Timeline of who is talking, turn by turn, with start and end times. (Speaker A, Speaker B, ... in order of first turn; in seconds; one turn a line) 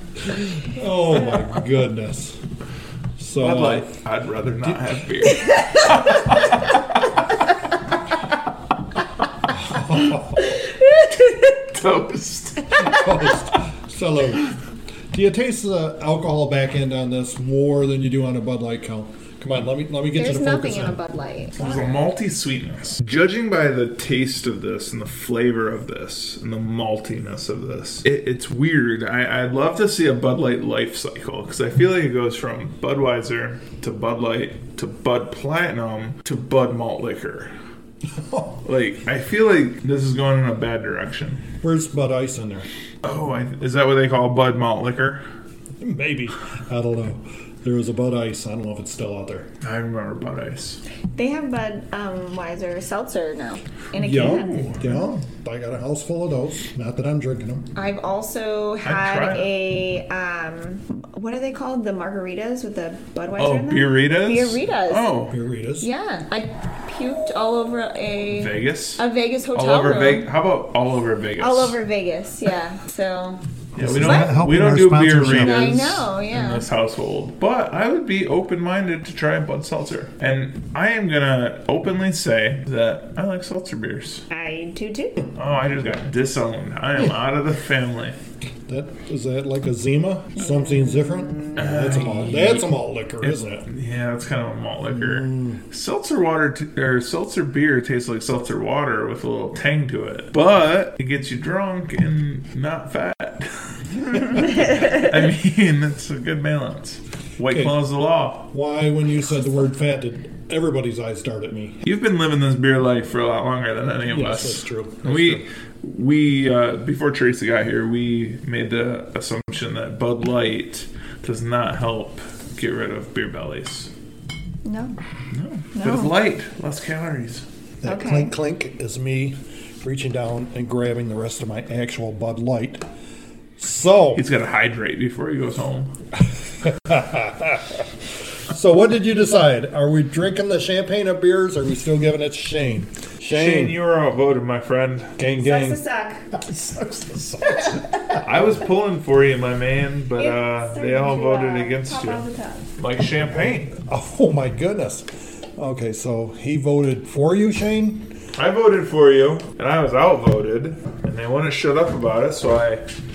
Speaker A: 0.6-2.4
Speaker A: 3.2-3.9
Speaker B: 3.4-6.8
Speaker A: 4.6-4.9
Speaker A: 9.5-10.4
Speaker C: 10.6-11.5
Speaker B: 11.7-12.8
Speaker A: 12.8-14.6
Speaker A: 15.1-21.0
Speaker C: 20.1-22.0
Speaker B: 21.6-37.5
Speaker A: 38.2-38.6
Speaker B: 38.6-41.4
Speaker A: 41.6-42.7
Speaker B: 43.0-45.2
Speaker A: 45.8-49.5
Speaker B: 49.6-50.8
Speaker C: 51.1-54.7
Speaker A: 54.0-57.7
Speaker B: 54.1-54.9
Speaker C: 57.8-65.1
Speaker B: 58.8-59.5
Speaker B: 63.4-65.3
Speaker A: 65.3-65.9
Speaker C: 65.8-70.3
Speaker B: 68.3-69.0
Speaker B: 69.5-71.8
Speaker C: 71.4-73.4
Speaker A: 73.8-76.0
Speaker B: 73.8-84.3
Speaker C: 74.0-74.3
Speaker C: 75.2-76.7
Speaker C: 84.3-85.3
Speaker B: 85.3-88.2
Speaker A: 88.7-93.7
Speaker C: 90.4-91.9
Speaker B: 91.5-108.5
Speaker A: 94.9-95.6
Speaker A: 107.5-107.8
Speaker A: 108.5-111.8
Speaker B: 111.8-123.9
Speaker A: 114.1-115.4
Speaker C: 124.7-125.0
Speaker B: 125.3-127.5
Speaker C: 125.7-126.1
Speaker A: 127.8-132.8
Speaker C: 127.8-128.3
Speaker A: 133.6-134.2
Speaker B: 134.2-135.9
Speaker A: 136.6-137.9
Speaker A: 138.5-143.8
Speaker B: 143.3-145.2
Speaker A: 145.2-145.8
Speaker C: 145.4-146.3
Speaker A: 146.4-148.2
Speaker B: 148.1-152.2
Speaker C: 150.2-152.7
Speaker B: 152.8-153.7
Speaker A: 153.7-158.1
Speaker B: 158.4-162.8